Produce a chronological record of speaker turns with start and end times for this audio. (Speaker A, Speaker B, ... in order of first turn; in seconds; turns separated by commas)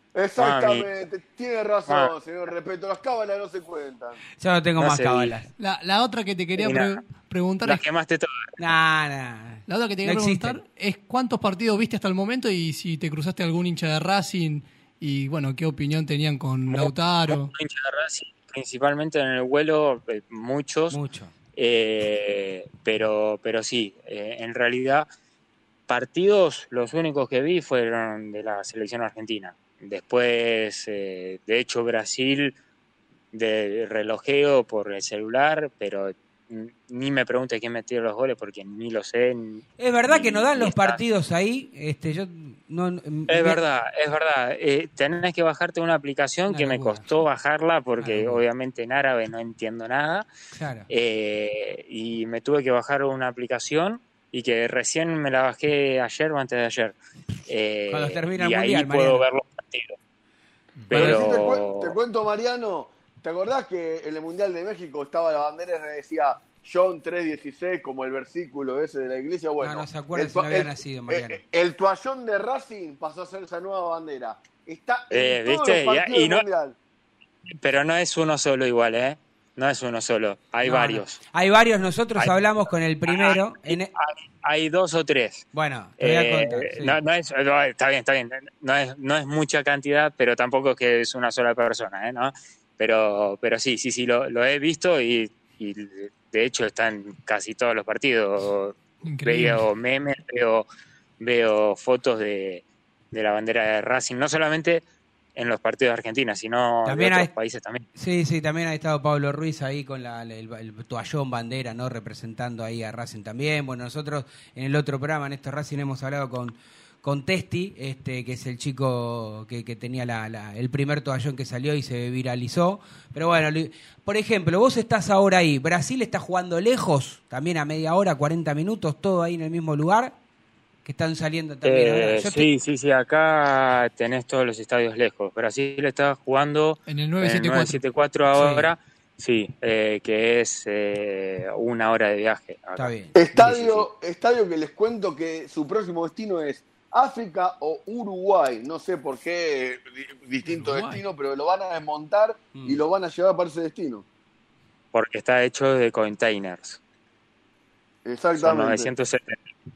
Speaker A: 0.1-4.2, Speaker B: 0.4-0.9, Speaker C: 4.4-5.5, Speaker B: 4.8-5.4, Speaker D: 5.6-7.8, Speaker B: 6.6-7.0, Speaker B: 7.6-8.3, Speaker C: 8.6-10.6, Speaker D: 9.7-17.5, Speaker B: 16.7-21.0, Speaker C: 20.9-21.3, Speaker B: 21.6-25.1, Speaker B: 25.9-32.6, Speaker B: 33.3-41.0, Speaker C: 39.8-43.6, Speaker B: 43.3-50.3, Speaker C: 46.5-47.0, Speaker C: 48.0-48.4, Speaker C: 50.5-50.9, Speaker B: 50.9-57.0, Speaker B: 57.5-60.0, Speaker C: 57.9-59.2, Speaker A: 60.9-76.8, Speaker B: 60.9-61.9, Speaker C: 69.6-71.4, Speaker B: 75.1-76.5, Speaker B: 77.5-81.2, Speaker C: 80.6-83.9, Speaker B: 82.2-82.5, Speaker B: 83.1-85.5, Speaker C: 85.5-87.0, Speaker B: 86.0-100.7, Speaker D: 99.0-99.7, Speaker B: 101.2-104.8, Speaker B: 105.4-107.8, Speaker C: 106.8-107.3, Speaker C: 108.0-130.2, Speaker C: 130.8-132.5, Speaker B: 131.7-143.8, Speaker D: 136.9-137.8, Speaker C: 138.3-138.7, Speaker C: 142.8-143.2, Speaker A: 143.2-154.1, Speaker C: 152.5-152.8, Speaker B: 154.9-156.8, Speaker A: 158.1-158.9, Speaker B: 158.4-159.4